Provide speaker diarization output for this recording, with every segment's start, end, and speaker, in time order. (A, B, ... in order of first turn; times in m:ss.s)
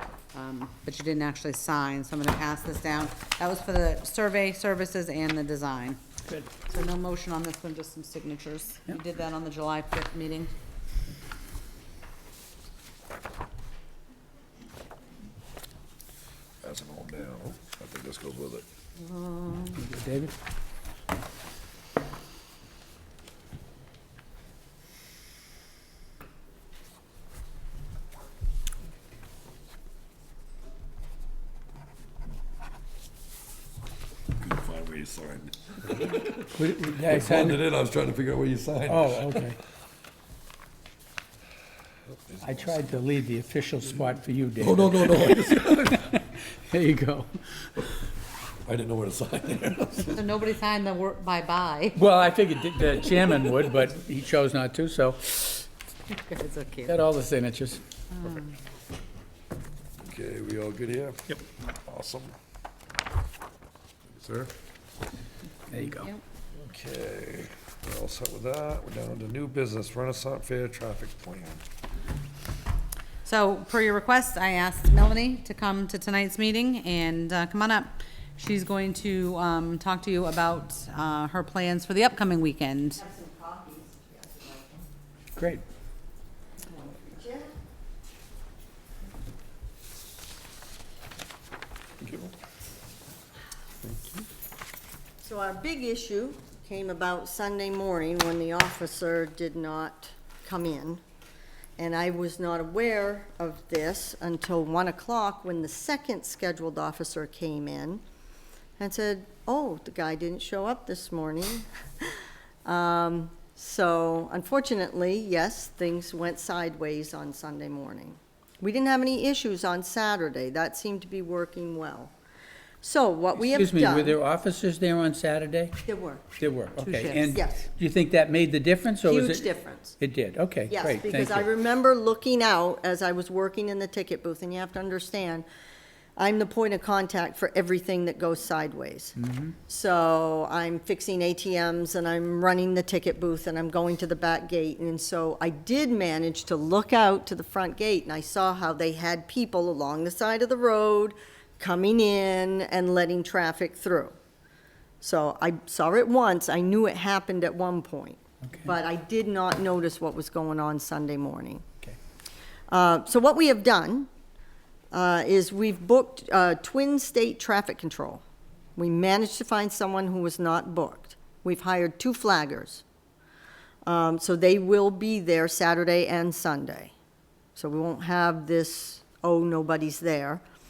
0:00.3-0:06.0 A
0:06.6-0:10.5 A
0:16.6-0:18.6 B
0:19.1-0:19.7 C
0:19.8-0:20.3 D
0:34.4-0:39.5 B
0:36.6-0:37.6 D
0:38.9-0:39.6 D
0:42.1-0:42.8 B
0:42.4-0:47.3 D
0:44.6-0:46.0 B
0:48.6-0:50.2 B
0:50.1-0:52.0 A
0:51.9-0:55.6 D
0:56.1-0:57.0 A
0:56.8-0:57.8 D
0:58.1-0:58.5 A
1:00.0-1:01.3 B
1:01.8-1:02.3 B
1:04.2-1:04.5 B
1:05.7-1:06.1 D
1:05.7-1:06.2 A
1:06.6-1:11.6 B
1:13.2-1:23.1 A
1:23.0-1:24.6 C
1:25.4-1:25.6 D
1:26.7-1:27.5 C
1:32.0-1:32.3 B
1:33.8-1:34.2 B
1:35.2-1:41.0 C
1:41.8-1:48.0 C
1:48.8-1:52.1 C
1:52.6-2:02.1 C
2:02.8-2:04.2 C
2:03.4-2:05.8 D
2:05.8-2:06.3 C
2:06.4-2:11.5 D
2:06.8-2:07.7 C
2:09.0-2:10.0 C
2:10.7-2:15.4 C
2:16.2-2:19.1 C
2:19.2-2:19.5 D
2:19.7-2:34.1 C
2:35.0-2:41.6 C
2:38.4-2:38.7 D
2:42.7-2:44.1 C
2:44.9-2:48.2 C
2:48.8-2:52.8 C
2:53.8-2:56.9 C
2:57.6-3:00.4 C